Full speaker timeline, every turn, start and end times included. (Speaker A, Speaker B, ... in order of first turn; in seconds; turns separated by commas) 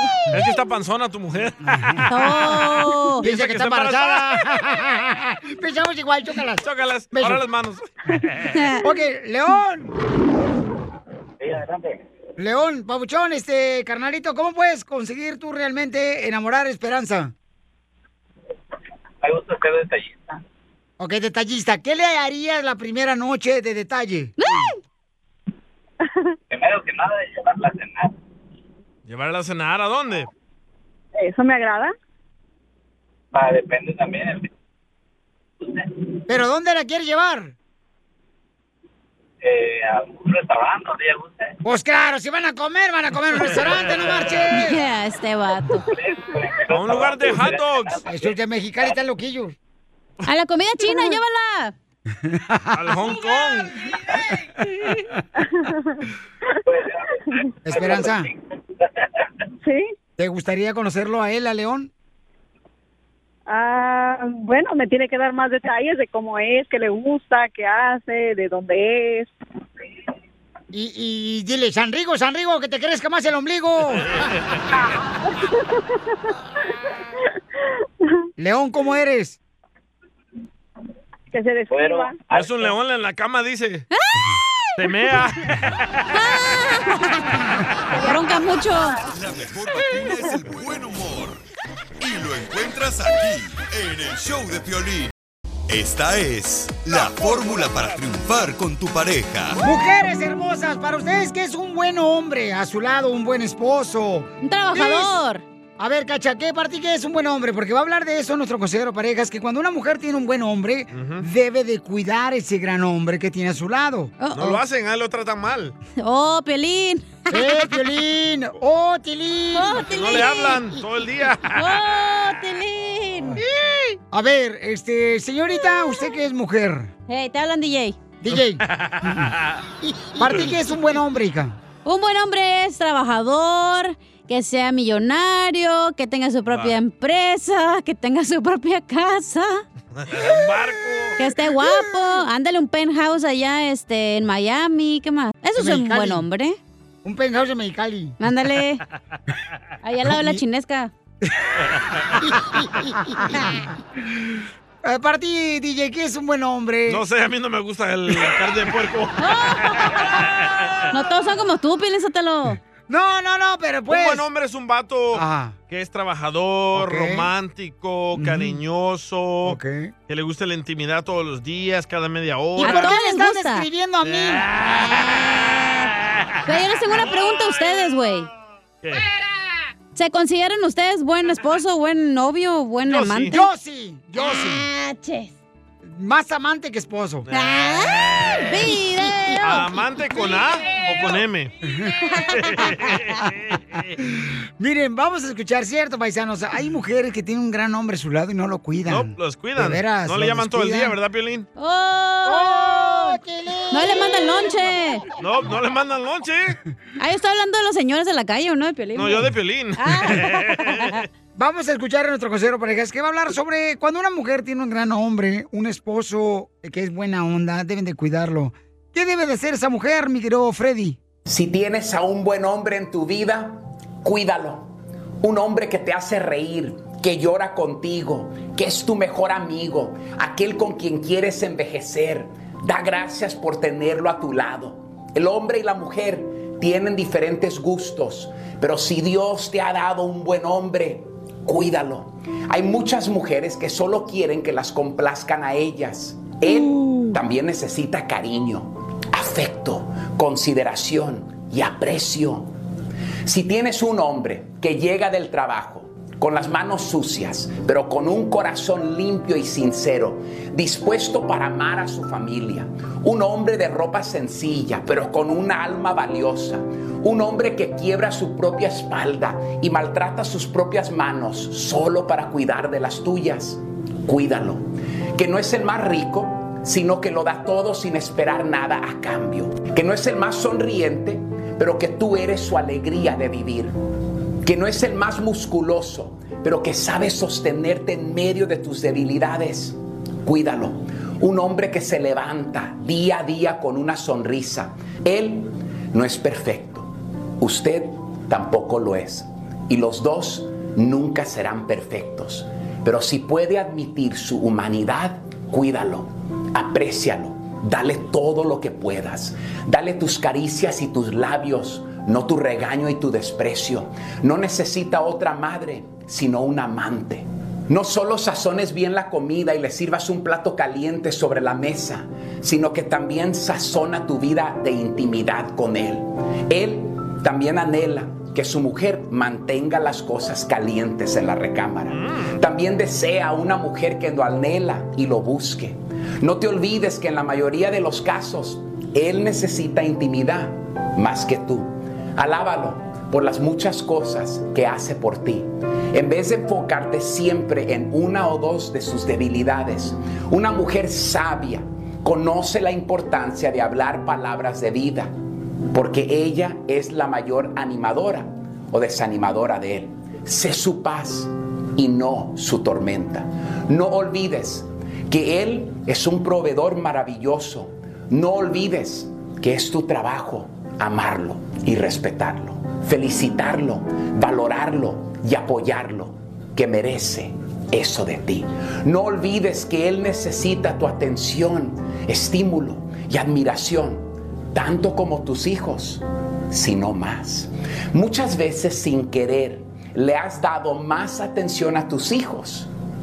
Speaker A: 0.3-4.6, Speaker B: 1.7-2.0, Speaker C: 2.1-3.2, Speaker B: 3.2-7.4, Speaker A: 6.6-8.7, Speaker C: 8.5-8.9, Speaker B: 8.8-9.9, Speaker D: 11.5-11.7, Speaker B: 12.4-17.3, Speaker D: 19.2-20.1, Speaker B: 21.0-24.3, Speaker C: 24.4-24.8, Speaker D: 26.5-28.1, Speaker A: 29.1-30.3, Speaker E: 31.1-31.9, Speaker D: 33.4-34.4, Speaker B: 36.3-37.5, Speaker D: 39.5-41.3, Speaker B: 41.6-44.8, Speaker C: 44.5-45.9, Speaker A: 46.7-48.0, Speaker D: 47.0-47.5, Speaker B: 48.0-49.6, Speaker C: 50.2-51.7, Speaker E: 50.9-51.2, Speaker B: 52.2-53.1, Speaker A: 52.7-53.8, Speaker B: 57.6-58.3, Speaker E: 59.6-59.9, Speaker B: 60.2-61.9, Speaker E: 63.5-69.3, Speaker B: 70.7-74.1, Speaker A: 74.1-74.6, Speaker B: 78.4-79.4, Speaker E: 81.3-82.2, Speaker D: 81.7-82.6, Speaker A: 82.3-83.9, Speaker C: 83.9-84.3, Speaker A: 84.8-86.1, Speaker C: 86.1-87.3, Speaker C: 88.0-89.0, Speaker F: 89.1-91.4, Speaker F: 92.0-95.1, Speaker F: 95.7-99.6, Speaker A: 97.0-97.7, Speaker B: 99.6-105.2, Speaker C: 104.4-105.4, Speaker B: 105.8-114.2, Speaker A: 110.9-111.3, Speaker C: 114.2-114.6, Speaker A: 114.3-115.8, Speaker C: 116.0-117.8, Speaker B: 117.3-119.8, Speaker C: 119.5-120.7, Speaker A: 119.9-121.8, Speaker C: 121.5-123.4, Speaker B: 124.1-126.9, Speaker C: 125.6-126.1, Speaker C: 127.1-128.0, Speaker B: 128.2-129.3, Speaker A: 128.3-129.6, Speaker B: 130.0-131.6, Speaker A: 130.2-130.6, Speaker C: 131.8-139.6, Speaker A: 136.5-136.8, Speaker A: 140.0-141.2, Speaker C: 141.2-146.6, Speaker B: 145.6-146.2, Speaker B: 147.0-148.2, Speaker C: 148.2-148.8, Speaker C: 149.8-150.9, Speaker B: 150.1-150.4, Speaker B: 151.2-151.6, Speaker B: 152.1-153.7, Speaker B: 154.8-157.1, Speaker A: 156.9-160.7, Speaker C: 159.2-160.1, Speaker C: 160.9-162.6, Speaker B: 162.9-164.3, Speaker A: 163.9-172.9, Speaker B: 165.1-165.6, Speaker B: 166.7-167.3, Speaker B: 168.2-168.6, Speaker B: 169.4-169.9, Speaker C: 172.6-173.7, Speaker B: 172.6-174.5, Speaker A: 174.0-176.6, Speaker C: 176.4-178.3, Speaker A: 178.8-179.1, Speaker C: 179.9-183.5, Speaker A: 182.8-183.4, Speaker B: 183.3-184.7, Speaker C: 184.2-185.3, Speaker B: 185.8-187.3, Speaker A: 187.3-188.6, Speaker C: 187.3-189.8, Speaker A: 189.4-191.6, Speaker B: 191.6-192.8, Speaker C: 192.0-192.7, Speaker A: 192.3-193.9, Speaker B: 193.9-201.0, Speaker A: 198.9-201.5, Speaker C: 201.6-203.2, Speaker B: 202.2-204.6, Speaker C: 203.7-205.1, Speaker A: 205.2-206.6, Speaker C: 207.0-211.0, Speaker A: 208.9-211.1, Speaker B: 211.4-221.0, Speaker G: 221.3-224.7, Speaker G: 225.2-252.5, Speaker G: 253.3-283.8, Speaker G: 284.4-355.1, Speaker A: 331.9-332.4, Speaker G: 355.7-392.7